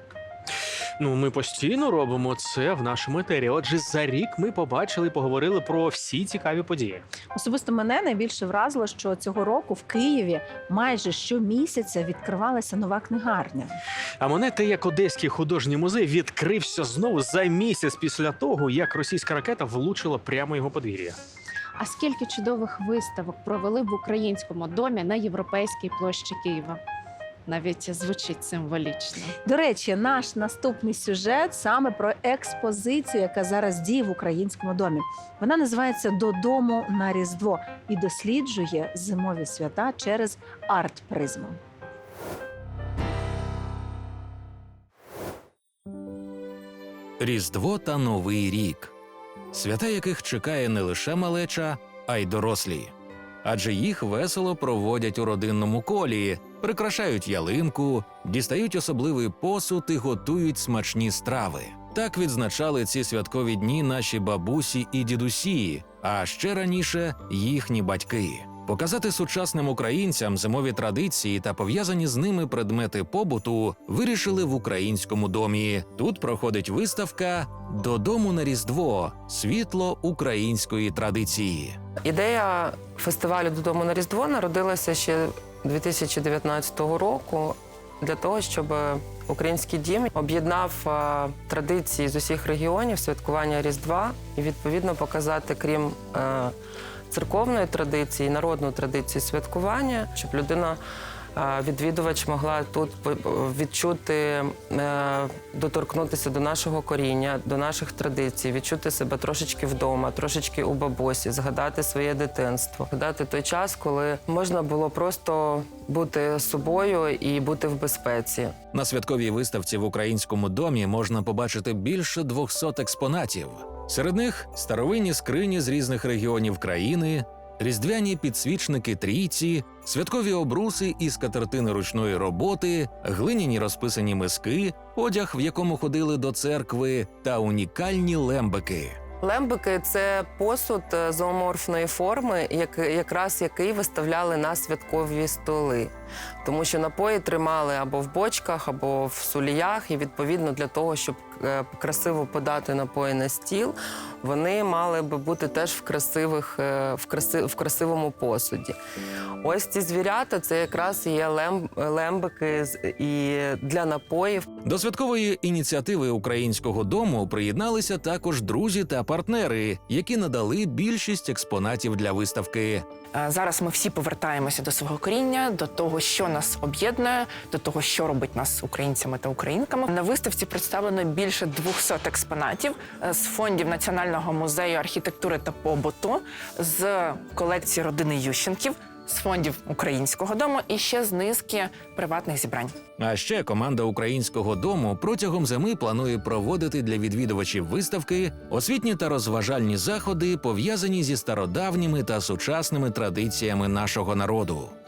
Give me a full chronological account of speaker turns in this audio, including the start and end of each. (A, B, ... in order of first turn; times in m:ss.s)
0:01.0-0:07.0 A
0:07.3-0:13.8 B
0:14.2-0:21.2 A
0:21.8-0:26.8 C
0:27.4-0:29.3 C
0:29.4-0:41.6 B
0:47.2-0:48.9 D
0:49.5-0:52.9 D
0:53.4-1:21.8 D
1:22.0-1:36.5 E
1:37.1-1:40.8 E
1:41.4-1:58.5 E
1:58.7-2:19.0 D
2:19.2-2:38.8 E
2:39.4-2:44.5 E
2:44.6-2:52.8 D
2:53.2-3:12.7 F
3:13.0-3:24.7 D